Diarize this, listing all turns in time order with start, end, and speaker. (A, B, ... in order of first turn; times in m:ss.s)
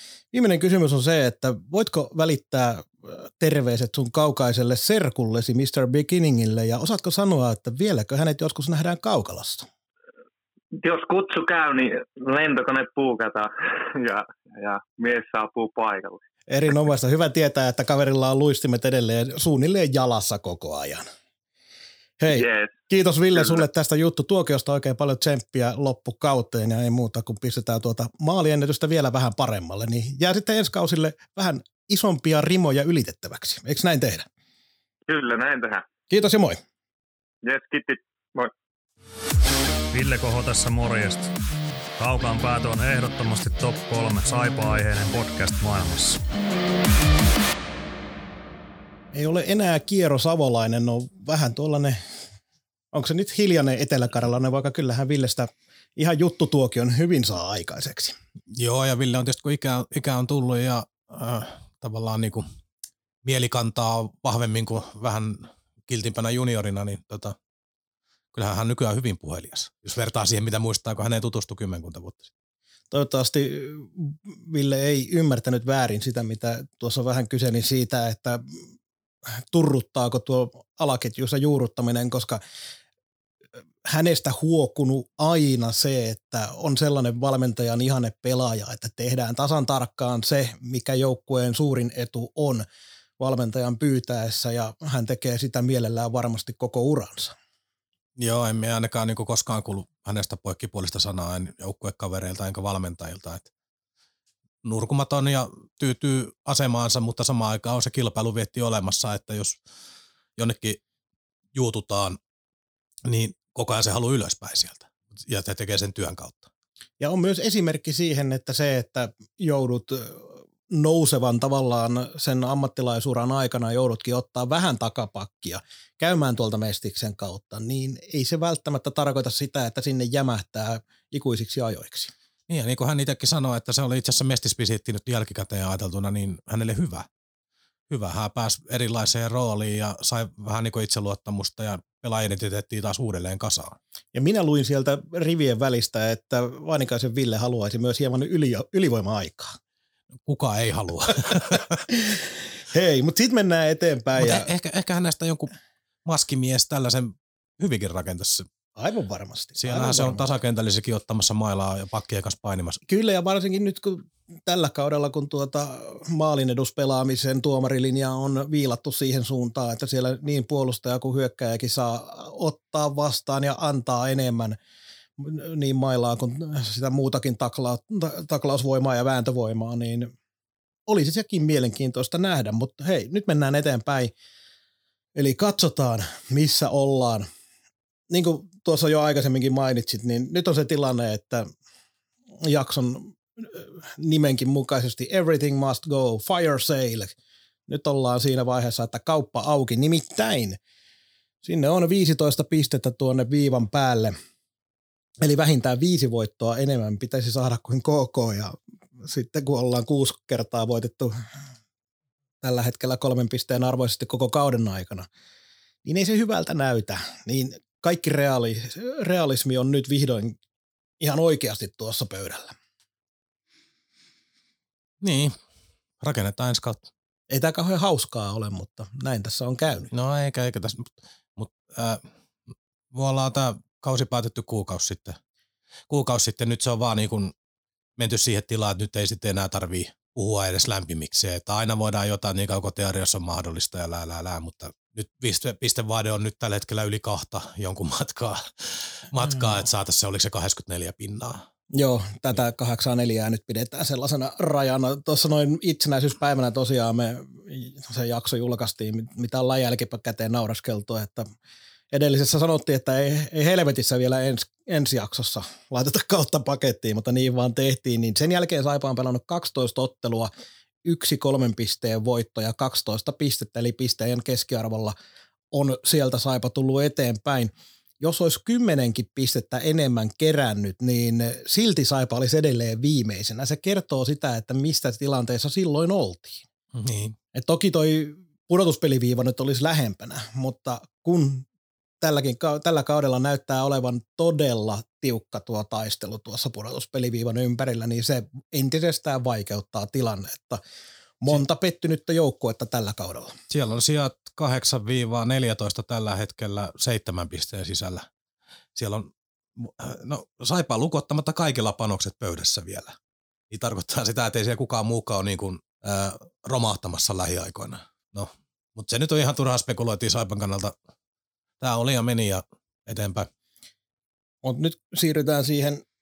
0:00.3-0:09.7 A
0:10.8-0:13.5 B
0:14.0-0:16.2 B
0:16.5-0:21.0 A
0:22.2-0:34.3 A
0:22.3-0:22.7 B
0:35.1-0:35.8 B
0:36.1-0:36.6 A
0:37.4-0:38.5 B
0:39.9-0:41.3 C
0:42.0-0:46.2 C
0:49.1-0:52.0 A
0:52.9-0:58.1 A
0:58.5-1:02.4 D
1:03.2-1:07.4 D
1:08.3-1:12.3 D
1:12.9-1:18.6 A
1:19.5-1:22.4 A
1:23.9-1:32.6 A
1:33.2-1:37.3 A
1:38.2-1:43.5 D
1:44.6-1:49.6 D
1:50.4-1:50.8 D
1:51.6-1:52.2 D
1:53.0-1:56.5 D
1:57.0-2:12.1 A
2:12.5-2:17.1 D
2:17.9-2:23.8 D
2:24.1-2:29.6 A
2:30.2-2:31.8 D
2:31.9-2:34.5 A
2:34.2-2:35.5 D
2:36.0-2:38.5 D
2:38.8-2:40.2 A
2:39.6-2:42.8 D
2:42.9-2:54.6 A
2:55.2-3:00.1 A
3:00.9-3:04.1 A
3:05.2-3:07.3 A
3:08.1-3:11.5 A
3:12.4-3:17.1 A
3:17.7-3:20.6 A
3:21.4-3:24.1 A
3:25.2-3:31.1 A
3:32.4-3:35.1 A
3:35.8-3:40.4 A
3:41.0-3:42.6 A
3:45.0-3:45.4 D
3:46.0-3:46.9 D
3:47.3-3:49.9 A
3:49.9-3:52.0 D
3:52.9-3:55.2 D
3:55.9-3:57.3 D
3:58.0-4:11.4 D
4:11.7-4:21.3 A
4:21.9-4:30.3 A
4:30.8-4:35.0 A
4:35.5-4:46.4 A
4:46.7-4:47.2 D
4:47.3-4:51.4 A
4:52.0-5:00.6 A
5:01.2-5:03.3 A
5:03.5-5:08.1 D
5:08.8-5:13.0 D
5:13.5-5:20.7 D
5:21.6-5:23.3 D
5:24.4-5:25.8 A